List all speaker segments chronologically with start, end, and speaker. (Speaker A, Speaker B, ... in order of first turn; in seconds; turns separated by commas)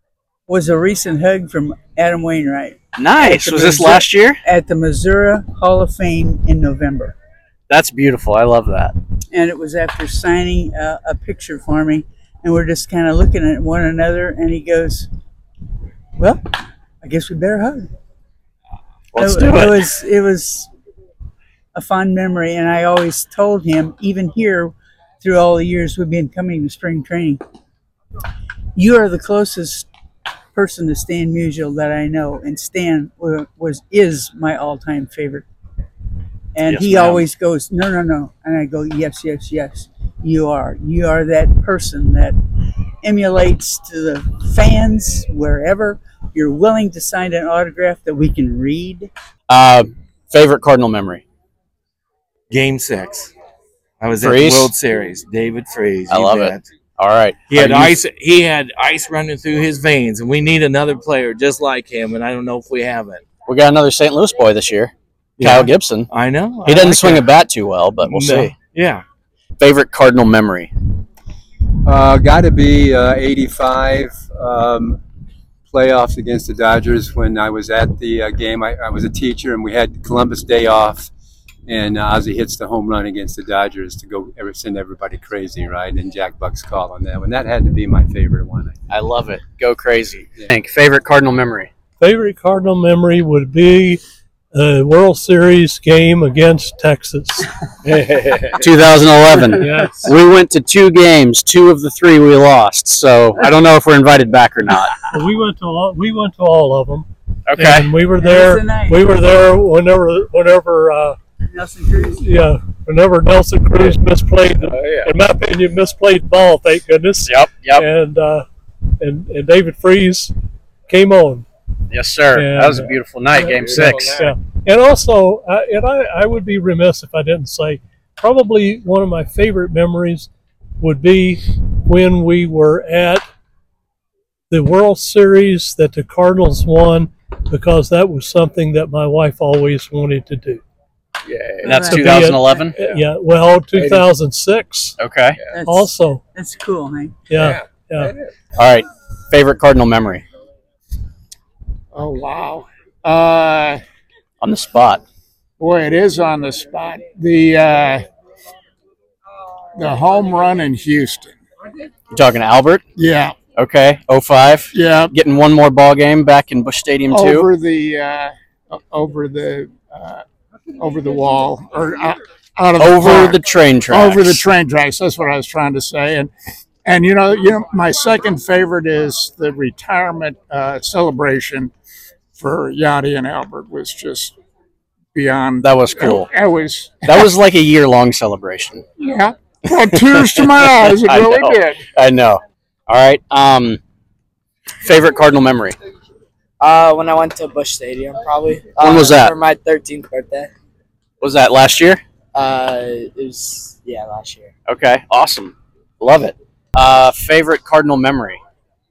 Speaker A: 0.5-7.2, Speaker B: 3.0-4.4, Speaker B: 7.7-8.9, Speaker A: 9.3-15.1, Speaker A: 16.2-17.9, Speaker B: 19.1-19.9, Speaker A: 19.1-20.7, Speaker A: 21.7-27.4, Speaker A: 28.8-29.9, Speaker A: 30.5-35.5, Speaker A: 36.5-42.4, Speaker B: 36.7-37.2, Speaker A: 43.0-49.1, Speaker B: 49.5-51.2, Speaker C: 52.5-53.3, Speaker C: 54.0-56.7, Speaker B: 54.2-54.7, Speaker B: 56.1-58.0, Speaker C: 57.5-63.2, Speaker B: 63.5-66.1, Speaker C: 65.4-67.3, Speaker B: 66.6-68.5, Speaker C: 68.0-69.0, Speaker B: 69.6-70.7, Speaker D: 71.8-75.0, Speaker D: 75.7-81.1, Speaker D: 81.7-88.7, Speaker B: 88.9-91.7, Speaker E: 92.0-94.0, Speaker E: 94.5-97.5, Speaker F: 97.8-98.6, Speaker B: 98.6-105.0, Speaker E: 99.5-100.1, Speaker E: 105.1-111.2, Speaker B: 107.5-107.9, Speaker A: 108.2-109.1, Speaker A: 111.5-112.2, Speaker E: 112.1-118.4, Speaker F: 114.6-115.1, Speaker B: 117.2-117.8, Speaker E: 119.0-120.3, Speaker E: 120.9-121.5, Speaker B: 121.9-124.2, Speaker E: 122.3-133.2, Speaker F: 123.6-124.3, Speaker E: 134.5-140.6, Speaker F: 141.2-141.7, Speaker A: 141.6-142.7, Speaker B: 141.6-142.8, Speaker E: 141.9-144.9, Speaker F: 142.7-143.0, Speaker F: 143.7-144.1, Speaker B: 145.0-145.4, Speaker A: 145.5-147.3, Speaker E: 145.6-146.2, Speaker E: 147.3-148.1, Speaker F: 147.5-148.3, Speaker B: 148.6-150.2, Speaker G: 151.9-153.8, Speaker B: 154.4-155.0, Speaker G: 155.6-158.1, Speaker G: 159.8-161.3, Speaker B: 162.1-162.8, Speaker G: 162.9-163.3, Speaker B: 163.6-167.5, Speaker G: 164.7-165.2, Speaker G: 167.1-170.2, Speaker G: 170.8-176.3, Speaker B: 172.8-174.4, Speaker G: 176.8-181.7, Speaker G: 182.4-184.3, Speaker G: 185.1-187.3, Speaker B: 185.6-186.3, Speaker B: 187.0-188.8, Speaker G: 189.0-191.8, Speaker B: 189.9-193.8, Speaker B: 194.8-195.8, Speaker H: 196.6-200.5, Speaker B: 198.8-199.3, Speaker B: 201.2-202.0, Speaker H: 202.3-204.4, Speaker B: 204.7-208.4